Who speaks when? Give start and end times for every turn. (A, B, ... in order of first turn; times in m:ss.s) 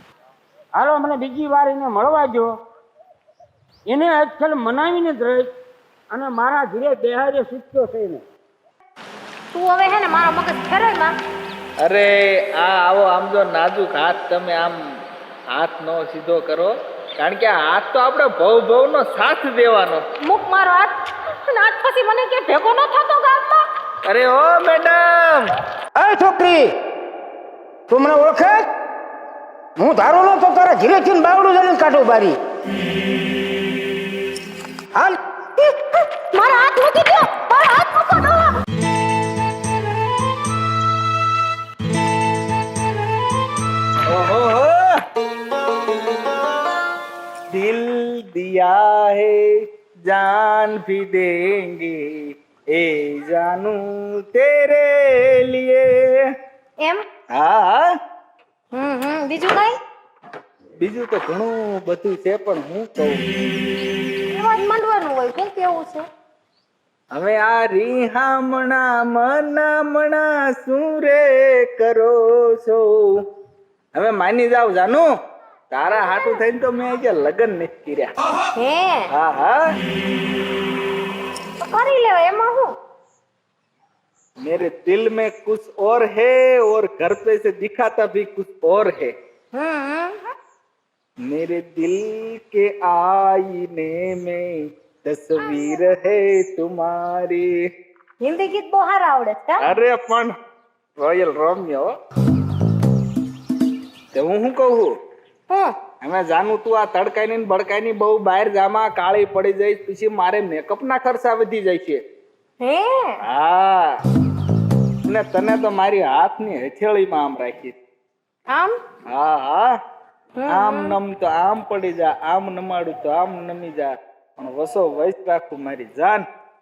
0:00.8-0:02.6 A
0:03.9-0:05.5 A
0:06.1-0:08.2 A
0:09.5-0:11.2 B
0:11.8-0:15.0 C
0:15.5-0:20.0 C
0:20.2-0:23.7 B
0:24.0-0:25.5 C
0:26.0-0:26.7 A
0:27.9-0:28.7 A
0:29.8-0:32.4 A
0:35.6-0:38.5 B
0:44.1-0:45.0 C
0:47.5-0:56.3 C
0:57.3-0:57.9 C
0:58.7-0:59.8 B
1:00.8-1:03.2 C
1:04.3-1:06.1 B
1:07.1-1:13.2 C
1:13.9-1:15.1 C
1:15.7-1:18.1 C
1:18.6-1:19.1 B
1:19.1-1:19.6 C
1:21.6-1:22.7 B
1:24.4-1:29.1 C
1:29.5-1:30.3 B
1:31.2-1:37.6 C
1:38.2-1:39.7 B
1:39.6-1:40.3 C
1:41.0-1:41.9 C
1:44.1-1:44.9 C
1:45.5-1:45.8 B
1:46.0-1:52.0 C
1:52.6-1:53.2 B
1:53.2-1:54.0 C
1:55.0-1:57.8 C
1:58.5-1:58.8 B
1:59.1-1:59.7 C
2:00.4-2:01.0 B
2:00.5-2:06.3 C